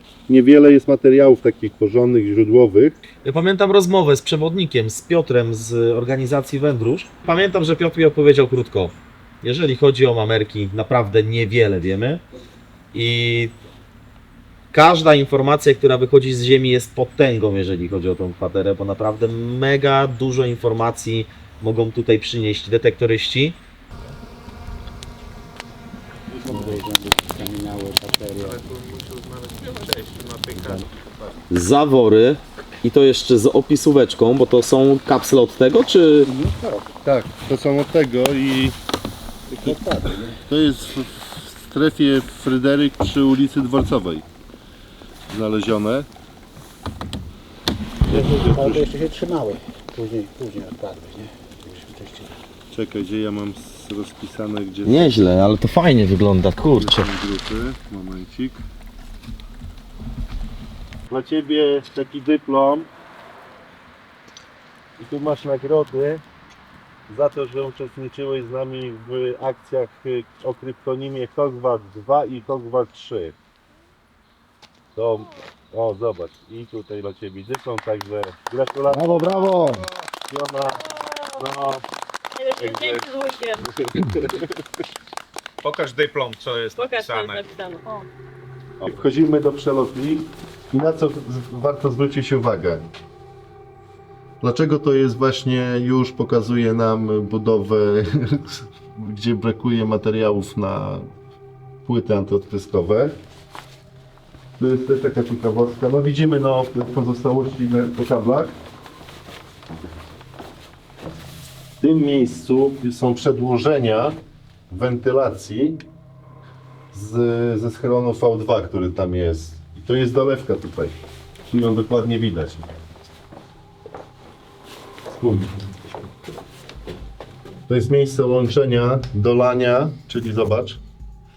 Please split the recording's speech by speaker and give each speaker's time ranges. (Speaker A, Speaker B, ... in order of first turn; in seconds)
Speaker A: 0.3-3.1, 37.0-38.8, 40.5-44.3, 45.3-46.1, 48.1-48.9, 52.7-55.2, 56.6-58.6, 61.1-62.9, 65.0-66.2, 67.1-73.4, 75.0-79.7, 80.3-81.8, 82.6-83.1, 83.8-84.5, 88.8-92.9, 94.4-101.1, 101.8-103.2, 104.6-108.6, 111.8-114.2, 114.7-115.8, 116.9-121.0, 121.5-122.7, 125.1-125.5, 127.7-130.8
Speaker B: 3.2-12.2, 12.9-13.5, 14.7-23.6, 31.5-36.3, 54.8-57.1, 78.9-79.8
Speaker C: 26.3-28.6, 30.6-30.9, 36.3-36.9, 39.5-40.4, 48.1-52.4
Speaker D: 28.4-30.9, 85.6-87.5
Speaker E: 82.4-83.7, 86.8-88.0